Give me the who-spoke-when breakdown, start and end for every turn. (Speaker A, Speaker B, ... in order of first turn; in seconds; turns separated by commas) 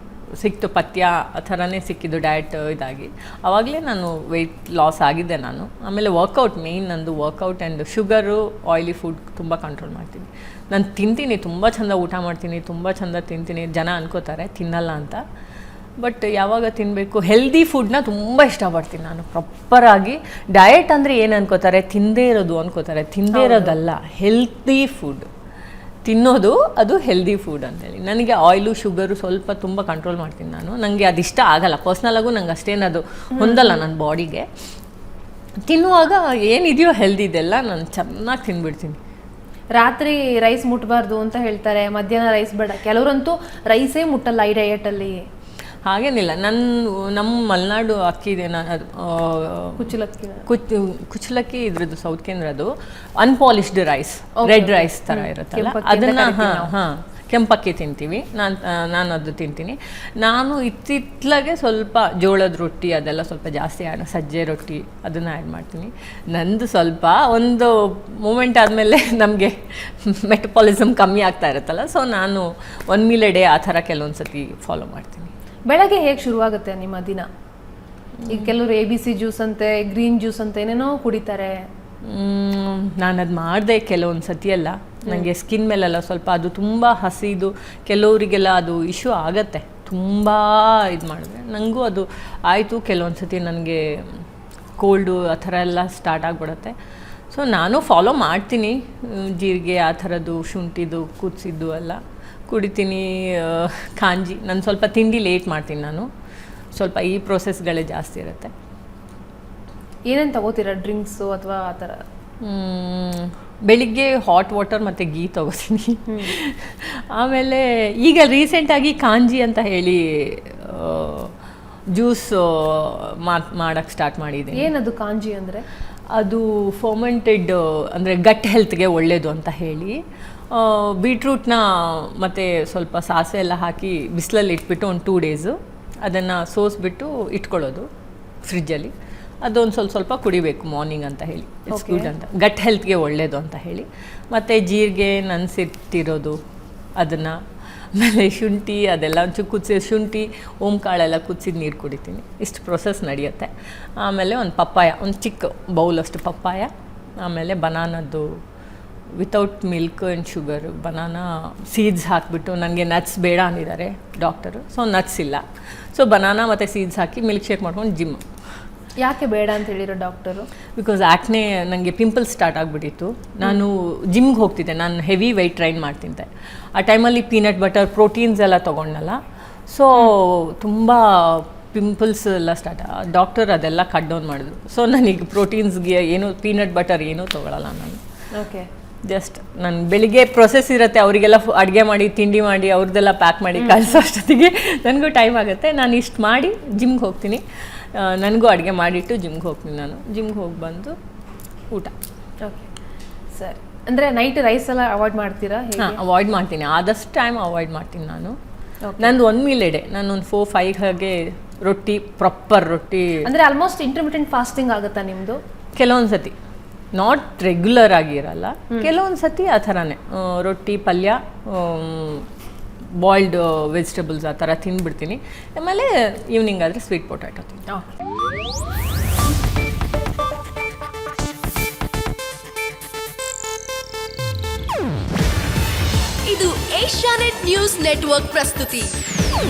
Speaker A: 0.4-15.2, Speaker A: 16.0-25.3, Speaker B: 23.3-23.7, Speaker A: 26.1-34.5, Speaker B: 33.3-33.8, Speaker A: 35.7-39.0, Speaker B: 39.8-45.2, Speaker A: 45.9-75.3, Speaker B: 49.8-50.5, Speaker B: 54.4-56.7, Speaker B: 75.7-77.2, Speaker A: 78.2-78.5, Speaker B: 78.3-81.6, Speaker A: 82.0-94.2, Speaker A: 94.8-96.8, Speaker A: 97.3-106.1, Speaker A: 106.8-108.5, Speaker B: 110.1-112.0, Speaker A: 112.4-121.3, Speaker B: 116.1-116.3, Speaker A: 121.9-124.7, Speaker B: 124.5-125.7, Speaker A: 126.1-137.9, Speaker A: 138.4-138.9, Speaker A: 139.4-146.4, Speaker B: 141.7-142.1, Speaker A: 147.0-147.4, Speaker A: 147.9-158.4, Speaker A: 159.2-165.4, Speaker A: 165.9-168.2, Speaker B: 169.0-170.5, Speaker A: 170.8-179.2, Speaker A: 179.7-188.0, Speaker B: 188.3-188.7, Speaker A: 189.1-200.9, Speaker B: 193.6-194.0, Speaker B: 203.3-206.0, Speaker A: 205.8-208.4, Speaker B: 208.9-209.1, Speaker A: 209.0-213.3, Speaker B: 213.2-215.4, Speaker A: 215.8-216.3, Speaker A: 216.9-222.3, Speaker A: 222.9-227.7, Speaker C: 236.2-238.9